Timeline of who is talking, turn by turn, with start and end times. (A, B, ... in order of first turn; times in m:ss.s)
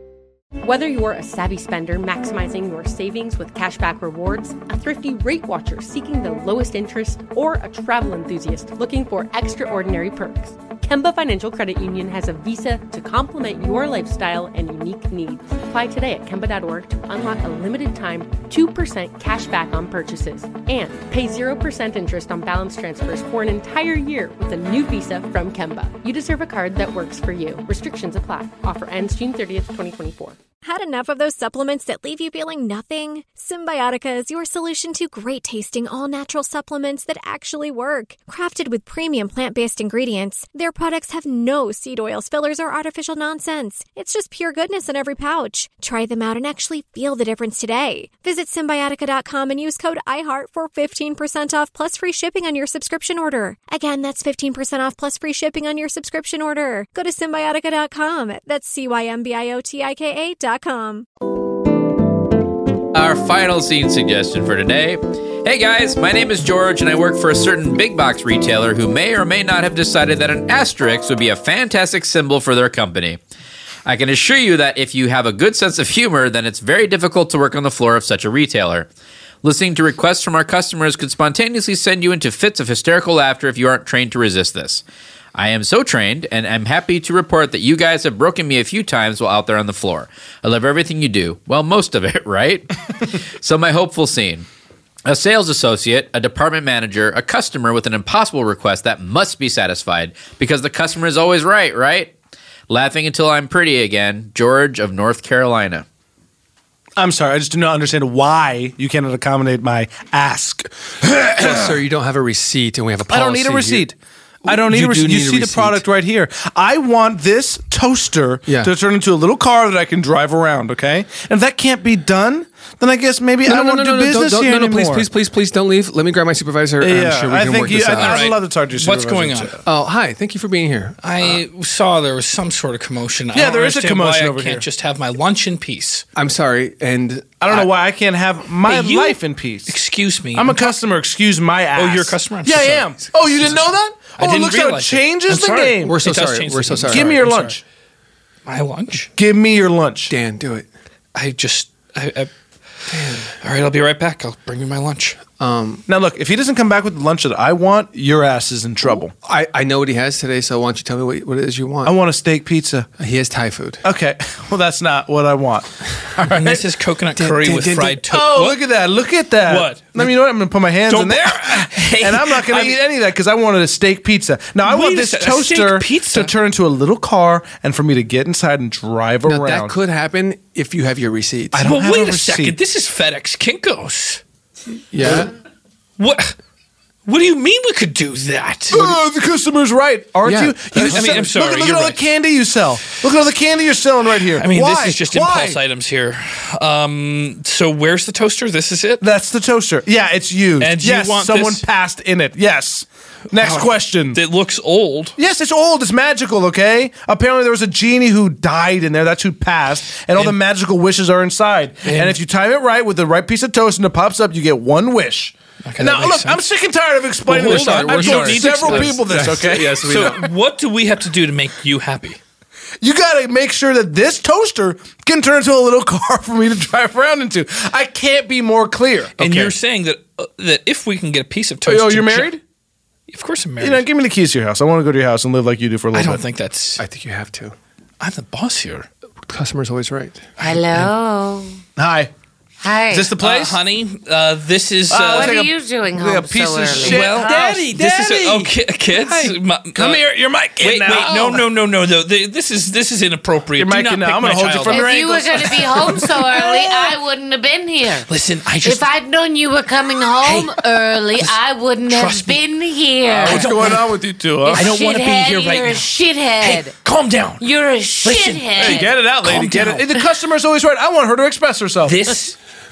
0:00.6-0:30.4 A
0:30.6-1:01.0 B
1:02.9-1:13.2 C
1:13.9-1:18.9 C
1:19.4-1:24.8 C
1:25.3-1:32.7 C
1:33.4-1:34.4 C
1:35.0-1:42.1 C
1:42.7-1:45.8 C
1:47.0-1:51.8 D
1:51.4-1:53.9 E
1:53.1-2:05.1 D
1:54.4-1:55.8 E
1:58.4-1:58.7 E
2:03.4-2:08.3 E
2:06.8-2:09.6 D
2:07.9-2:09.6 F
2:09.6-2:11.0 E
2:11.0-2:16.0 F
2:13.3-2:14.6 D
2:16.1-2:17.7 E
2:17.4-2:19.7 D
2:18.6-2:20.7 F
2:20.3-2:26.0 D
2:21.8-2:23.6 F
2:24.2-2:27.6 F
2:25.8-2:27.2 E
2:26.9-2:27.6 D
2:28.4-2:29.1 F
2:29.1-2:30.1 D
2:30.1-2:30.7 E
2:31.1-2:32.3 F
2:32.9-2:33.3 E
2:33.4-2:35.3 F
2:35.3-2:35.8 E
2:35.9-2:39.1 D
2:38.9-2:41.9 E
2:41.8-2:42.9 D
2:43.0-2:43.8 E
2:43.8-2:45.7 D
2:46.2-2:46.6 D
2:46.3-2:48.6 F
2:47.2-2:48.0 E
2:48.0-2:59.8 D
2:49.4-2:50.0 F
2:50.9-2:52.8 F
2:54.6-2:56.3 F
2:59.2-3:01.7 E
3:01.5-3:02.6 D
3:01.6-3:04.2 F
3:04.9-3:05.3 E
3:06.0-3:06.3 F
3:07.0-3:09.0 F
3:08.7-3:15.6 D
3:10.2-3:11.3 E
3:10.8-3:12.0 F
3:14.4-3:19.0 F
3:19.0-3:24.2 D
3:20.6-3:21.6 F
3:23.4-3:25.1 F
3:25.2-3:40.0 D
3:31.8-3:32.2 F
3:35.6-3:36.4 F
3:37.3-3:40.3 E
3:37.4-3:39.2 F
3:39.8-3:42.2 F
3:42.8-3:49.6 D
3:49.2-3:52.3 F
3:51.6-3:52.4 D
3:53.1-3:53.9 F
3:53.6-3:56.2 D
3:55.9-3:56.8 F
3:56.8-3:57.6 E
3:58.0-3:58.9 F
3:59.3-4:00.2 E
4:00.4-4:01.6 G
4:01.8-4:02.1 D
4:02.6-4:03.1 G
4:02.9-4:03.6 D
4:03.2-4:05.4 F
4:04.9-4:07.6 D
4:05.0-4:07.4 G
4:06.8-4:10.0 F
4:07.2-4:09.3 E
4:09.7-4:11.5 D
4:10.6-4:16.2 F
4:13.6-4:16.4 D
4:14.7-4:18.1 G
4:18.1-4:18.9 F
4:18.6-4:23.7 G
4:20.2-4:21.3 F
4:21.9-4:22.4 F
4:23.2-4:24.7 D
4:23.2-4:23.9 F
4:24.4-4:26.7 G
4:24.5-4:27.4 F
4:27.4-4:28.9 G
4:28.0-4:30.0 F
4:28.6-4:32.1 D
4:31.8-4:32.4 F